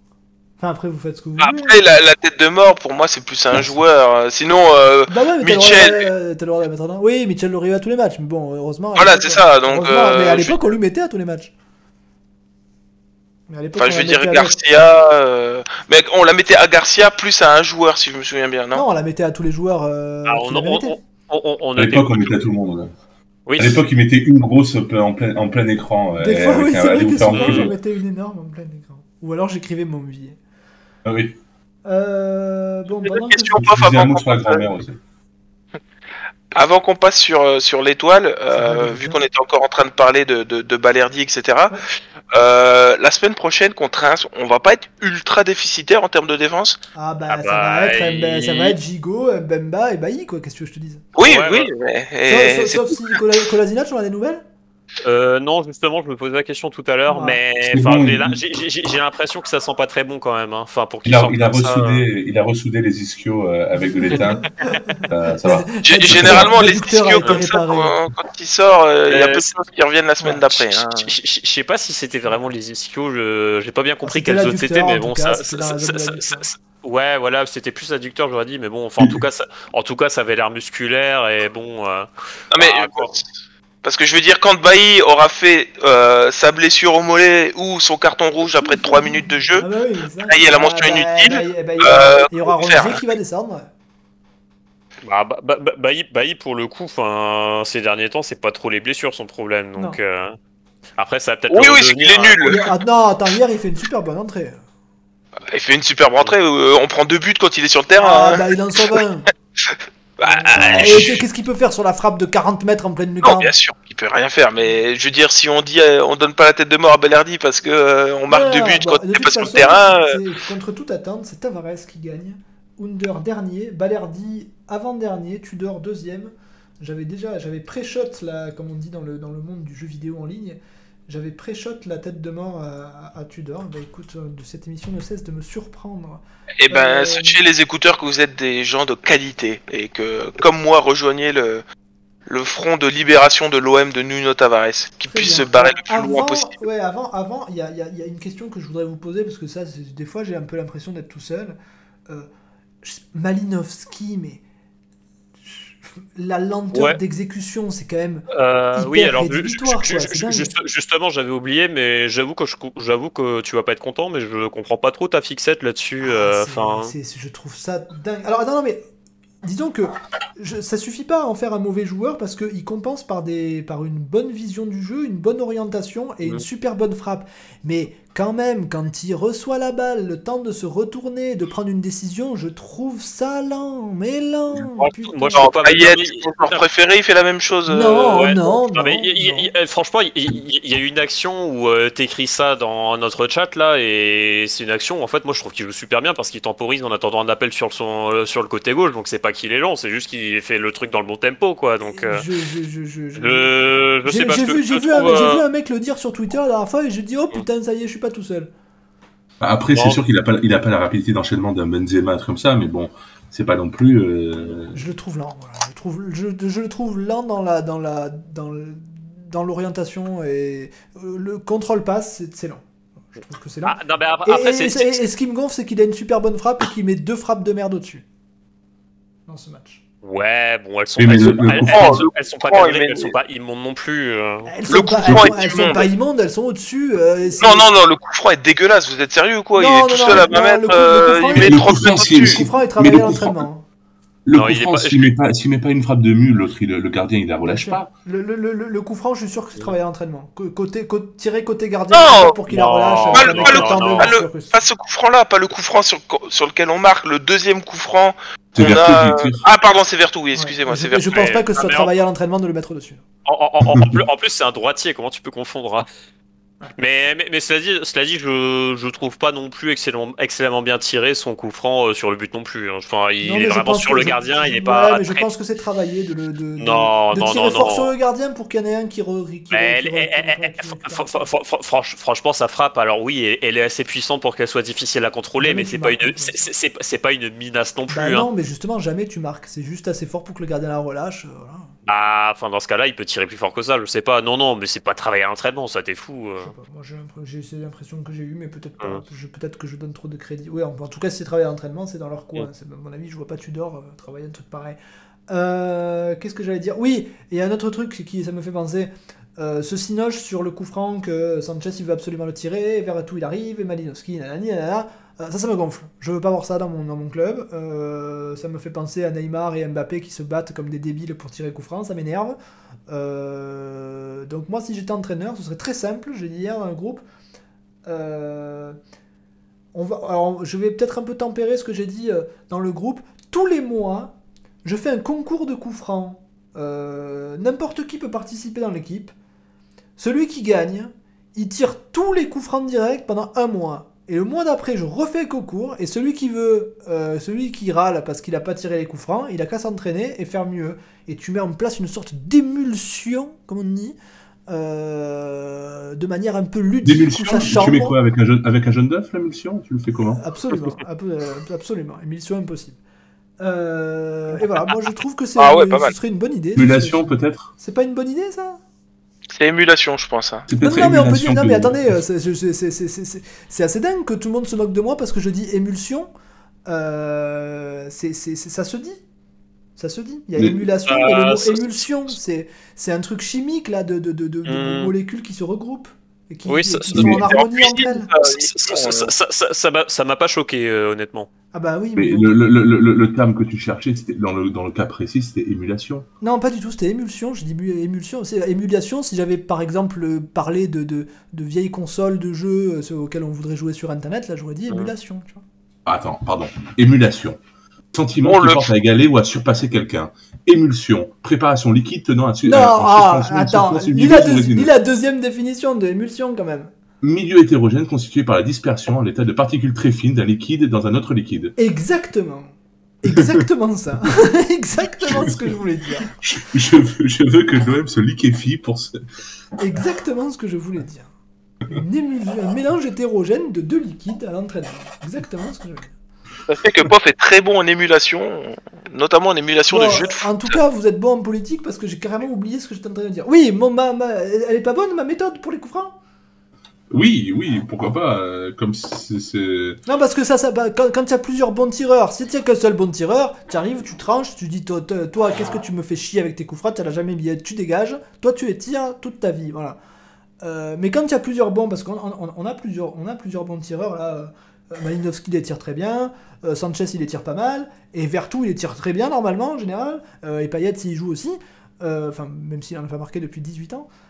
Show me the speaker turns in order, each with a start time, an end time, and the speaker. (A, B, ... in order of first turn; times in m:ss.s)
0:00.6-0:02.0 A
0:01.4-0:06.1 B
0:03.5-0:03.8 C
0:05.1-0:11.5 A
0:09.0-0:10.6 B
0:13.5-0:14.6 A
0:13.8-0:18.8 B
0:18.7-0:21.0 A
0:20.3-0:22.3 D
0:21.8-0:22.9 C
0:23.5-0:23.8 D
0:23.6-0:27.7 C
0:26.2-0:30.4 A
0:27.3-0:27.7 D
0:31.0-0:31.4 C
0:31.9-0:33.7 A
0:33.0-0:34.7 B
0:33.6-0:35.0 C
0:36.6-0:46.8 B
0:38.5-0:39.2 A
0:47.0-0:51.0 A
0:47.3-0:48.8 D
0:51.2-0:53.2 B
0:51.2-0:51.7 D
0:52.3-0:54.4 A
0:55.0-1:02.1 D
0:57.1-0:57.4 A
0:57.6-0:58.6 C
1:01.0-1:04.5 C
1:03.8-1:07.9 A
1:05.1-1:06.6 C
1:05.8-1:11.1 B
1:09.1-1:09.5 D
1:10.6-1:23.2 D
1:14.0-1:16.4 A
1:22.5-1:23.3 B
1:23.8-1:29.7 B
1:28.6-1:33.7 A
1:30.3-1:33.0 B
1:35.0-1:40.4 D
1:41.0-1:42.6 D
1:41.5-1:42.6 B
1:42.5-1:44.6 A
1:45.5-1:49.0 B
1:48.0-1:49.3 A
1:49.7-1:51.2 B
1:50.3-1:53.5 A
1:50.6-1:51.2 C
1:53.2-2:00.4 B
1:58.3-2:17.4 A
2:16.6-2:21.6 B
2:22.3-2:26.6 B
2:25.0-2:31.6 A
2:32.8-2:34.4 A
2:35.5-2:40.5 A
2:36.7-2:37.0 D
2:38.3-2:46.9 D
2:46.0-2:48.8 A
2:49.4-3:05.5 A
3:04.8-3:06.6 D
3:05.4-3:08.2 B
3:07.7-3:09.5 A
3:07.9-3:22.3 D
3:21.9-3:23.5 A
3:23.2-3:25.4 D
3:24.1-3:28.5 A
3:29.4-3:34.8 C
3:29.7-3:30.0 D
3:34.7-3:48.0 A
3:43.6-3:45.0 D
3:49.3-3:49.8 A
3:50.0-3:54.5 D
3:51.0-3:52.0 C
3:51.6-3:53.1 B
3:54.5-3:57.7 A
3:54.7-3:55.9 B
3:55.0-3:55.4 C
3:57.4-4:02.5 B
3:59.6-4:03.6 A
4:01.3-4:03.5 C
4:04.2-4:07.9 C
4:04.3-4:05.1 D
4:07.5-4:14.6 A
4:11.9-4:12.4 B
4:12.5-4:14.2 D
4:13.1-4:21.2 B
4:18.6-4:19.5 C
4:20.4-4:23.0 A
4:21.1-4:21.9 D
4:23.3-4:25.9 D
4:23.7-4:24.0 C
4:26.8-4:35.3 D
4:33.2-4:41.2 A
4:36.6-4:37.9 D
4:39.5-4:48.3 D
4:45.4-4:46.4 A
4:47.9-4:51.7 A
4:51.9-4:56.5 D
4:56.4-5:04.8 A
5:05.3-5:22.4 A
5:22.9-5:27.0 A
5:27.9-5:28.8 A
5:29.7-5:39.1 A
5:40.0-5:54.0 A
5:54.5-5:58.0 A
5:56.8-6:00.6 C
6:00.1-6:02.8 A
6:03.4-6:08.6 A
6:05.4-6:06.0 B
6:06.6-6:07.5 C
6:09.3-6:10.5 B
6:10.5-6:12.0 C
6:10.6-6:16.1 A
6:16.7-6:19.0 A
6:19.8-6:28.1 A
6:20.4-6:21.0 C
6:20.9-6:21.9 D
6:24.4-6:24.9 D
6:26.5-6:27.2 D
6:26.9-6:27.3 C
6:27.1-6:29.1 B
6:28.2-6:31.3 D
6:31.5-6:32.3 A
6:32.0-6:36.1 C
6:36.2-6:45.4 A
6:45.9-6:47.4 C
6:47.9-6:54.7 C
6:48.2-6:48.7 B
6:52.5-6:56.7 A
6:57.0-7:01.5 C
7:01.6-7:06.1 A
7:05.0-7:05.6 C
7:06.1-7:09.0 C
7:09.6-7:11.1 A
7:11.7-7:16.0 A
7:16.5-7:20.6 B
7:19.7-7:26.0 A
7:26.9-7:29.8 C
7:29.9-7:39.8 A
7:40.4-7:53.9 A